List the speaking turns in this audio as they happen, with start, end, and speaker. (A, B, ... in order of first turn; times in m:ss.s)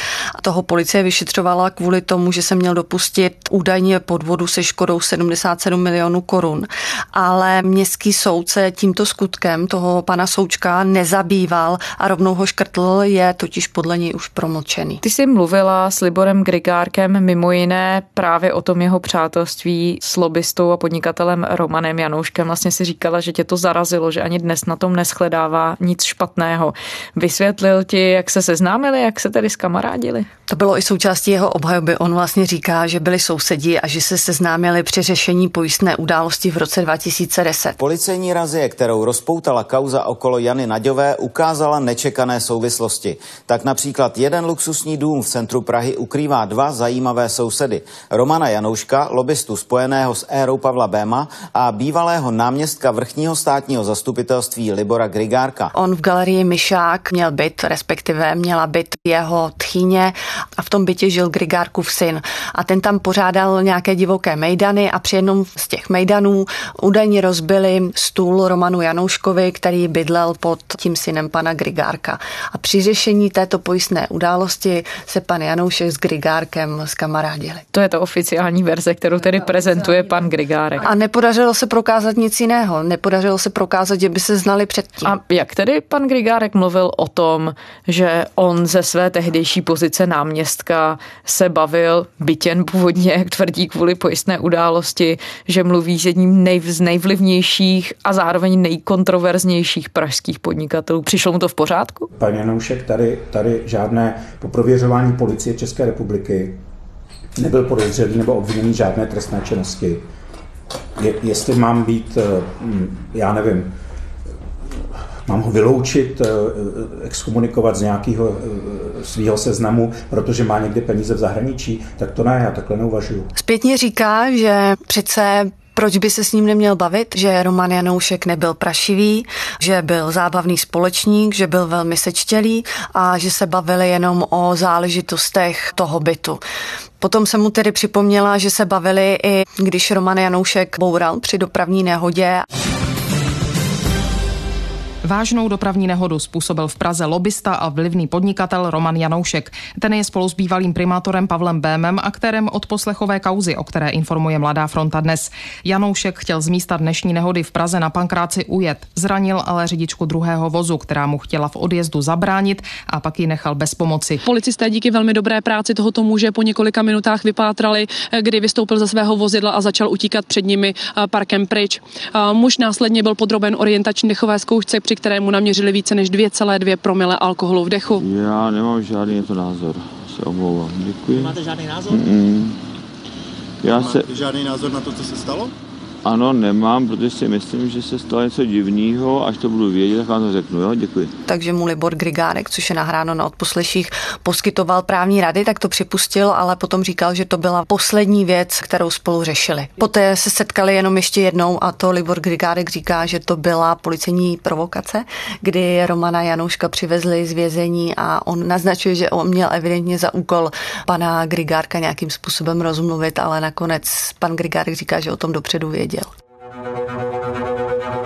0:00.4-0:15.0 A
0:15.0-0:30.3 B
0:30.5-0:37.8 A
0:37.8-0:55.7 C
0:55.7-1:17.6 A
1:17.7-1:20.9 B
1:20.8-1:25.1 A
1:25.0-1:42.1 B
1:42.1-1:46.6 D
1:47.4-1:50.0 D
1:51.0-1:53.7 D
1:55.3-2:03.3 D
2:03.4-2:16.4 A
2:17.0-2:22.4 A
2:25.0-2:44.2 E
2:44.2-2:58.0 F
2:58.0-3:02.6 G
3:01.1-3:02.0 H
3:03.6-3:04.1 G
3:03.7-3:05.5 H
3:06.0-3:11.1 G
3:11.2-3:36.1 A